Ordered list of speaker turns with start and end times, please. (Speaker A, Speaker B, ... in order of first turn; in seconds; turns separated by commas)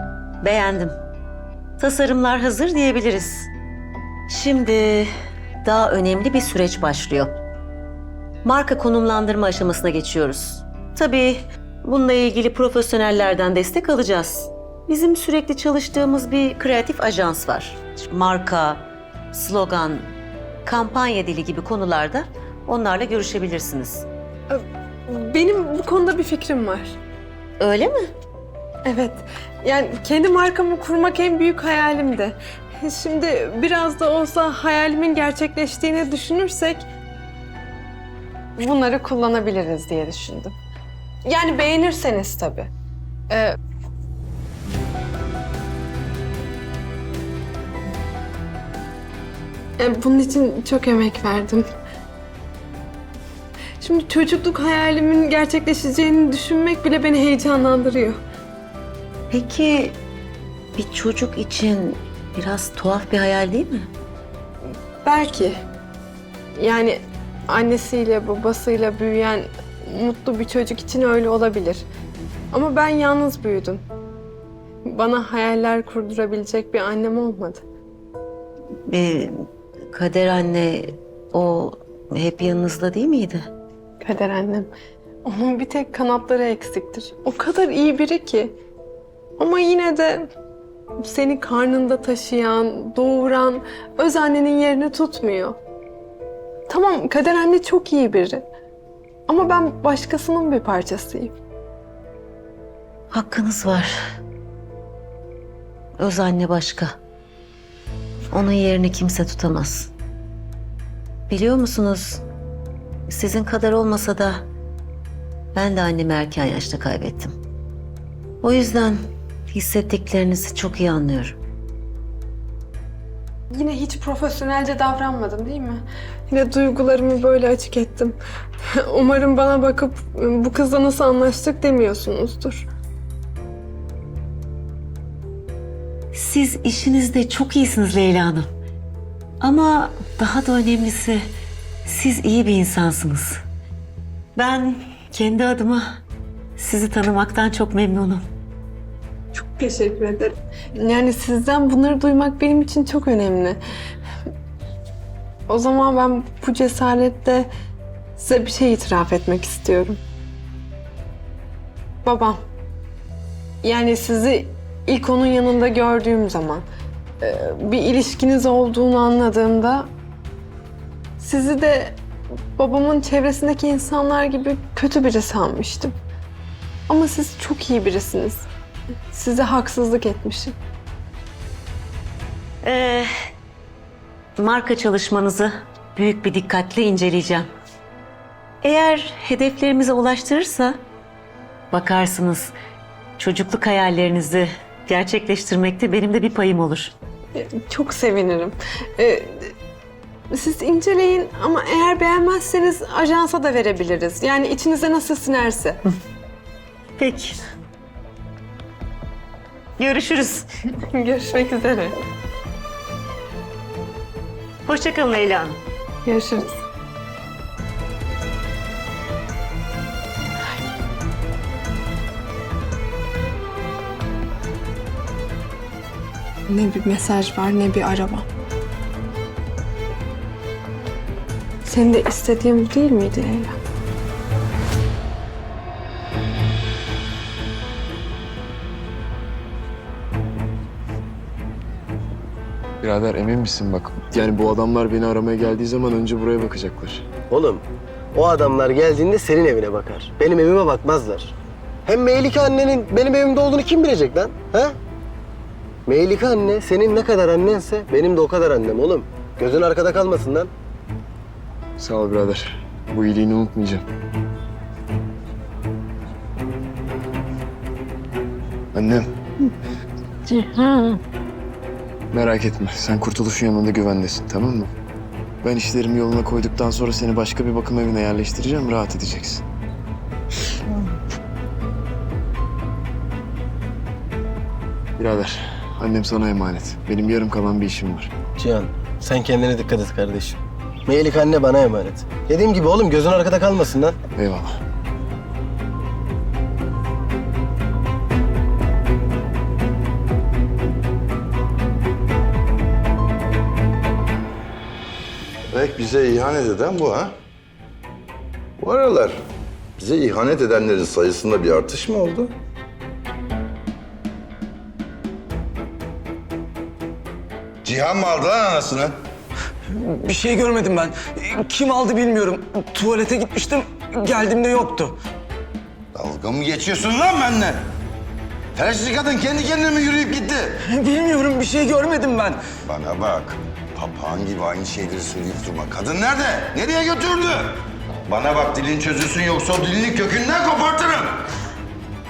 Speaker A: 0.4-0.9, Speaker A: 1.8-3.5, Speaker A: 4.3-5.1, Speaker A: 5.6-7.3, Speaker A: 8.4-20.1, Speaker A: 20.6-24.1, Speaker B: 24.5-27.0, Speaker A: 27.6-28.1, Speaker B: 28.8-36.8, Speaker B: 38.6-40.5, Speaker B: 41.2-42.7, Speaker B: 49.8-51.6, Speaker B: 53.8-58.2, Speaker A: 59.3-60.0, Speaker A: 60.8-63.9, Speaker B: 65.0-65.5, Speaker B: 66.5-71.8, Speaker B: 72.5-73.8, Speaker B: 74.8-77.6, Speaker A: 78.9-79.3, Speaker A: 79.9-83.5, Speaker B: 84.0-84.7, Speaker B: 85.2-88.5, Speaker B: 89.4-90.3, Speaker B: 91.0-95.6, Speaker B: 96.7-98.5, Speaker B: 99.3-101.3, Speaker A: 103.1-104.0, Speaker A: 106.0-107.0, Speaker A: 108.3-109.9, Speaker A: 111.3-112.2, Speaker A: 113.1-114.5, Speaker A: 115.5-117.3, Speaker A: 118.4-119.0, Speaker A: 119.5-121.4, Speaker B: 123.5-128.2, Speaker B: 128.7-132.7, Speaker A: 136.1-138.5, Speaker A: 139.4-141.3, Speaker A: 141.8-143.4, Speaker A: 144.3-146.0, Speaker A: 146.6-148.3, Speaker B: 149.4-153.6, Speaker B: 155.5-157.5, Speaker B: 158.2-160.0, Speaker B: 162.0-162.4, Speaker B: 163.6-166.6, Speaker B: 167.2-169.9, Speaker B: 171.2-172.0, Speaker B: 172.6-175.9, Speaker B: 176.9-178.5, Speaker B: 179.1-180.6, Speaker A: 182.6-183.1, Speaker A: 184.4-187.5, Speaker A: 188.6-190.8, Speaker A: 191.7-192.5, Speaker A: 193.2-196.9, Speaker B: 197.3-199.5, Speaker B: 200.3-205.8, Speaker A: 207.0-207.4, Speaker A: 209.8-210.4, Speaker B: 210.9-211.9, Speaker A: 214.6-215.6, Speaker B: 216.0-216.6, Speaker B: 226.5-228.2, Speaker B: 231.6-233.6, Speaker C: 242.8-247.1, Speaker D: 247.3-251.3, Speaker D: 251.8-254.8, Speaker D: 255.9-260.5, Speaker C: 261.8-263.8, Speaker C: 268.7-269.1, Speaker C: 272.1-274.7, Speaker C: 275.4-279.4, Speaker C: 285.0-288.1, Speaker D: 288.4-293.9, Speaker C: 294.1-294.5, Speaker E: 305.5-307.1, Speaker E: 308.6-309.2, Speaker E: 309.8-312.3, Speaker E: 317.6-318.9, Speaker F: 319.7-324.9, Speaker E: 325.9-327.6, Speaker E: 328.5-330.5, Speaker F: 330.6-332.4, Speaker E: 332.6-337.5, Speaker E: 338.1-341.2